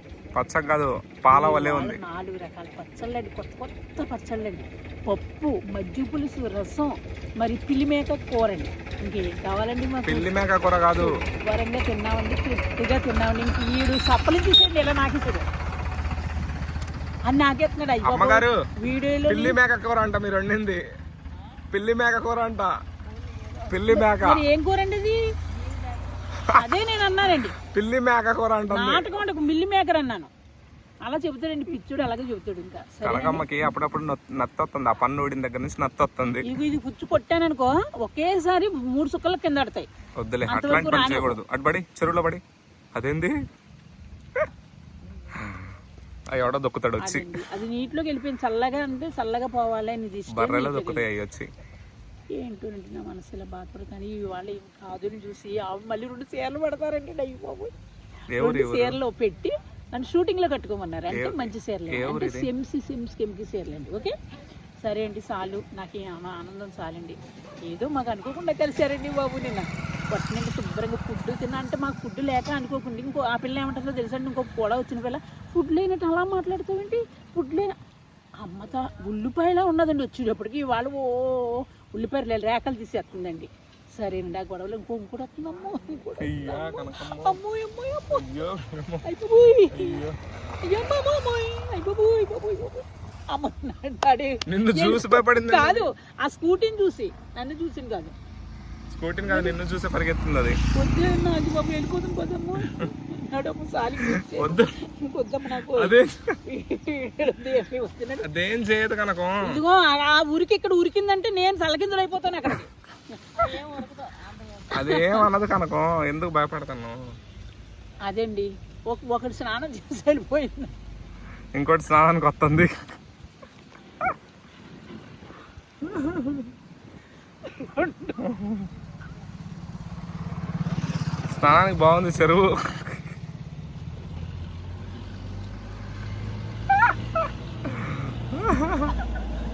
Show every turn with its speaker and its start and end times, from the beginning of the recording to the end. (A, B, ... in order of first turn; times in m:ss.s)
0:00.3-0:02.0 A
0:01.3-0:10.4 B
0:10.0-0:11.2 A
0:11.0-0:15.5 B
0:17.2-0:19.6 B
0:18.0-0:18.6 A
0:19.3-0:20.8 A
0:21.7-0:22.8 A
0:23.7-0:24.4 A
0:23.9-0:25.2 B
0:26.5-0:27.6 B
0:27.7-0:29.2 A
0:28.7-0:30.3 B
0:31.0-0:33.4 B
0:33.0-0:36.5 A
0:36.4-0:39.9 B
0:40.2-0:42.4 A
0:40.5-0:41.4 B
0:42.9-0:43.3 A
0:45.3-0:45.7 A
0:46.3-0:47.3 A
0:47.0-0:51.0 B
0:50.3-0:51.5 A
0:52.3-0:57.7 B
0:58.3-0:59.0 A
0:58.3-1:04.1 B
1:01.1-1:02.5 A
1:04.8-1:17.7 B
1:18.4-1:28.2 B
1:26.2-1:27.4 A
1:28.1-1:29.0 A
1:29.0-1:30.0 B
1:29.7-1:30.2 A
1:30.6-1:38.1 B
1:34.5-1:35.9 A
1:38.9-1:40.6 A
1:39.2-1:39.5 B
1:40.7-1:48.3 B
1:44.0-1:44.7 A
1:45.6-1:46.4 A
1:48.2-1:49.6 A
1:49.4-1:53.8 B
1:54.7-1:57.0 A
1:54.7-1:55.3 B
1:58.0-2:00.7 B
2:01.5-2:02.7 A
2:05.8-2:06.5 A
2:07.4-2:08.2 B
2:08.2-2:08.7 A
2:11.3-2:13.0 A
2:17.7-2:18.9 A